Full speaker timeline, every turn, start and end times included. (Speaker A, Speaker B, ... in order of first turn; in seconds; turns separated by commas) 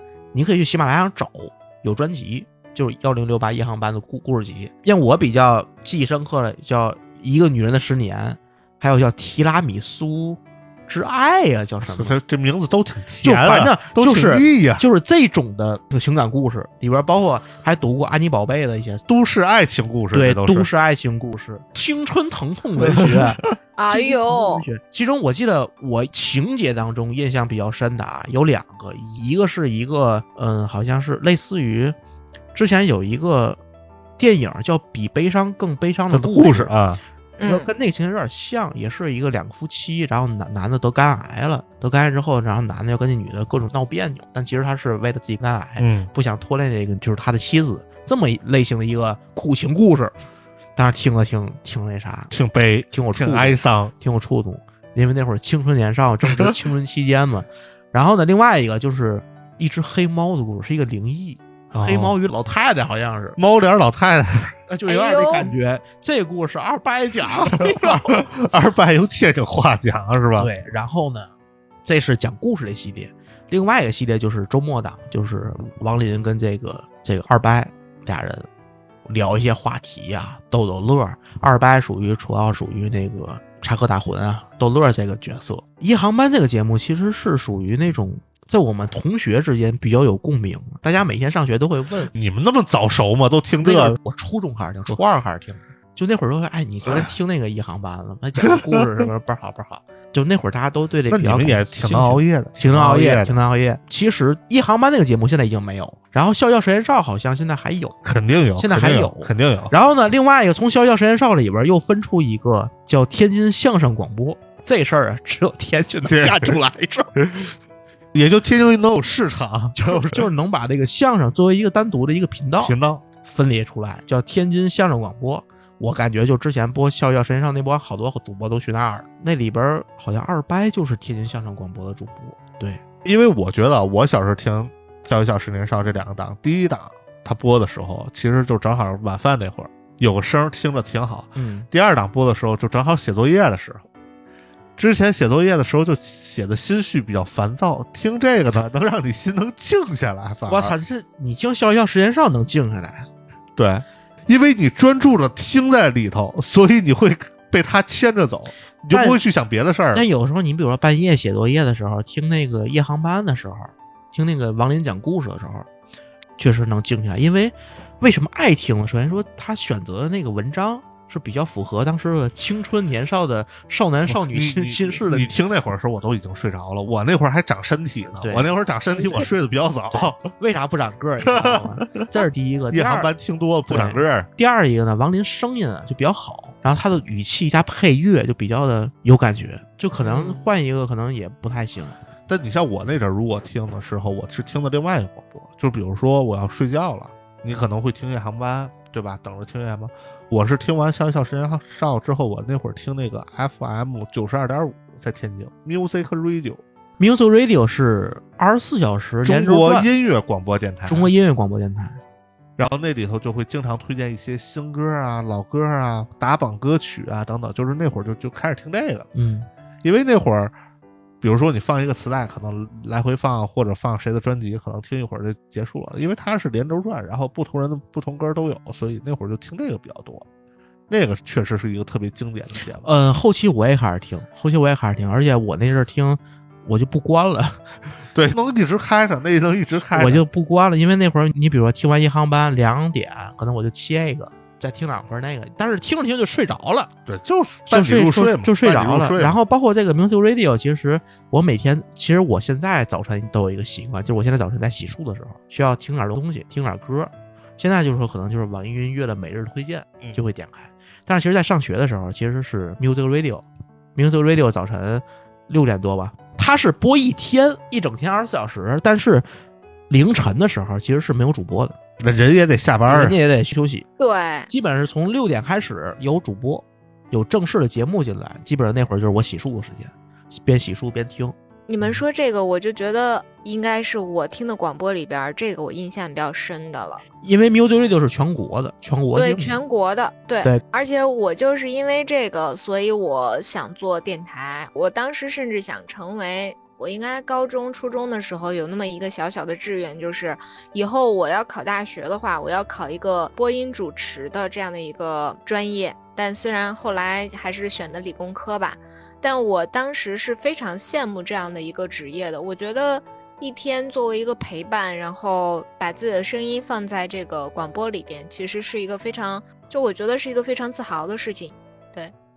Speaker A: 0.3-12.2, Speaker B: 11.9-14.8, Speaker A: 13.2-19.0, Speaker B: 19.1-20.7, Speaker A: 20.1-31.9, Speaker B: 22.9-23.4, Speaker C: 23.8-24.6, Speaker A: 32.5-33.6, Speaker A: 34.2-36.7, Speaker B: 36.1-37.0, Speaker C: 37.4-37.7, Speaker A: 37.4-50.1, Speaker B: 45.8-46.1, Speaker A: 50.8-52.3, Speaker B: 52.3-53.9, Speaker A: 52.9-63.4, Speaker B: 61.7-62.1, Speaker B: 63.4-64.5, Speaker A: 64.7-68.2, Speaker C: 64.9-65.5, Speaker B: 67.3-70.5, Speaker A: 70.4-71.3, Speaker A: 71.8-78.5, Speaker A: 79.1-92.1, Speaker B: 92.1-94.0, Speaker A: 93.6-108.0, Speaker B: 96.8-97.1, Speaker B: 98.5-99.0, Speaker B: 101.1-103.4, Speaker B: 108.0-109.7, Speaker A: 108.6-117.1, Speaker B: 116.0-116.6, Speaker B: 117.2-117.5, Speaker B: 118.1-120.3, Speaker A: 119.8-132.8, Speaker B: 122.6-123.0, Speaker B: 133.0-143.8, Speaker A: 141.3-141.7, Speaker B: 144.8-150.8, Speaker A: 150.5-153.1, Speaker B: 153.6-160.1, Speaker A: 158.9-159.2, Speaker A: 159.9-165.7, Speaker A: 166.4-175.3, Speaker B: 174.1-180.2, Speaker A: 178.2-178.5, Speaker A: 179.0-179.3, Speaker A: 179.9-183.1, Speaker B: 181.2-184.3, Speaker A: 183.7-192.0, Speaker B: 190.0-190.4, Speaker B: 192.3-206.6, Speaker A: 207.0-209.9, Speaker B: 209.2-211.1, Speaker A: 210.9-212.0, Speaker B: 212.6-219.1, Speaker A: 219.1-219.5, Speaker B: 219.8-220.5, Speaker B: 221.2-230.2, Speaker B: 230.9-232.9, Speaker A: 232.8-237.6, Speaker B: 238.1-240.2, Speaker A: 239.9-246.9, Speaker B: 247.1-249.4, Speaker A: 247.7-269.3, Speaker A: 269.9-271.8, Speaker B: 272.0-273.2, Speaker A: 272.9-273.9, Speaker C: 274.0-274.5, Speaker A: 274.5-281.4, Speaker C: 281.7-287.0, Speaker A: 287.2-289.6, Speaker C: 289.1-322.1